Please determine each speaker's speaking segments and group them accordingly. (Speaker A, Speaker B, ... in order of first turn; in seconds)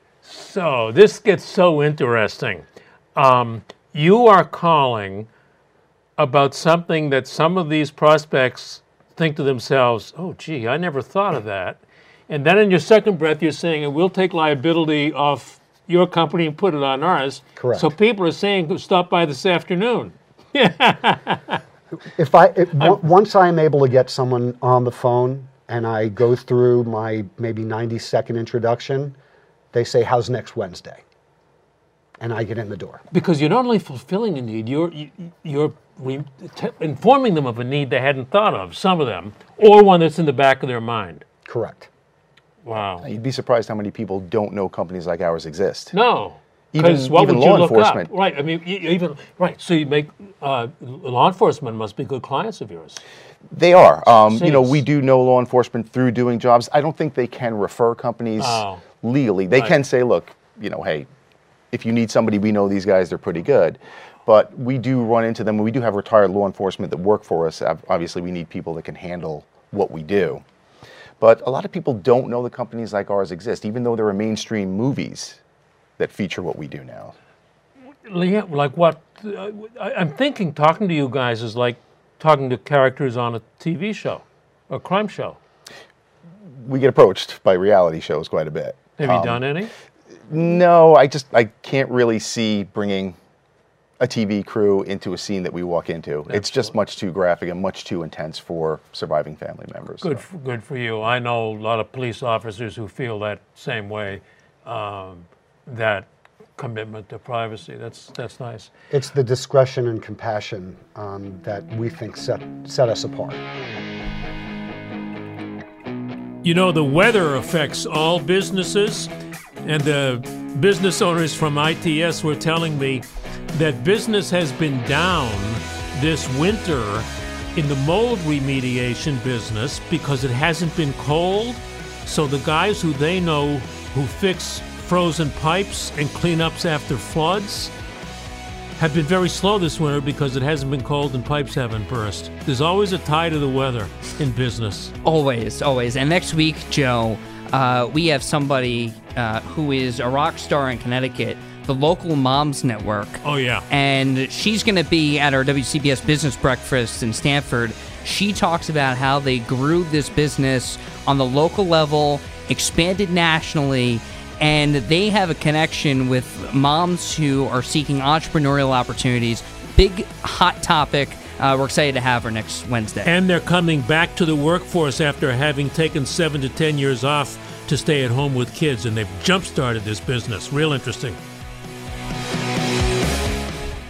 Speaker A: 0.2-5.3, 6.2-21.6, 33.1-41.2, 42.6-43.1, 45.9-53.0, 54.1-54.9, 58.4-58.8, 59.5-59.8, 78.0-85.4, 89.0-89.7, 96.3-96.7, 100.0-108.7, 116.4-119.1, 119.6-137.7, 138.8-144.9, 153.2-153.7, 173.0-181.2
Speaker B: 17.6-17.9, 22.1-29.2, 29.7-31.0, 32.2-33.0, 41.5-41.9, 108.9-113.4
Speaker C: 43.0-45.9, 46.7-48.1, 53.5-61.1, 61.7-70.4, 71.2-75.4, 76.0-77.1, 86.6-89.4, 90.3-93.2, 94.0-100.2
Speaker D: 145.0-173.1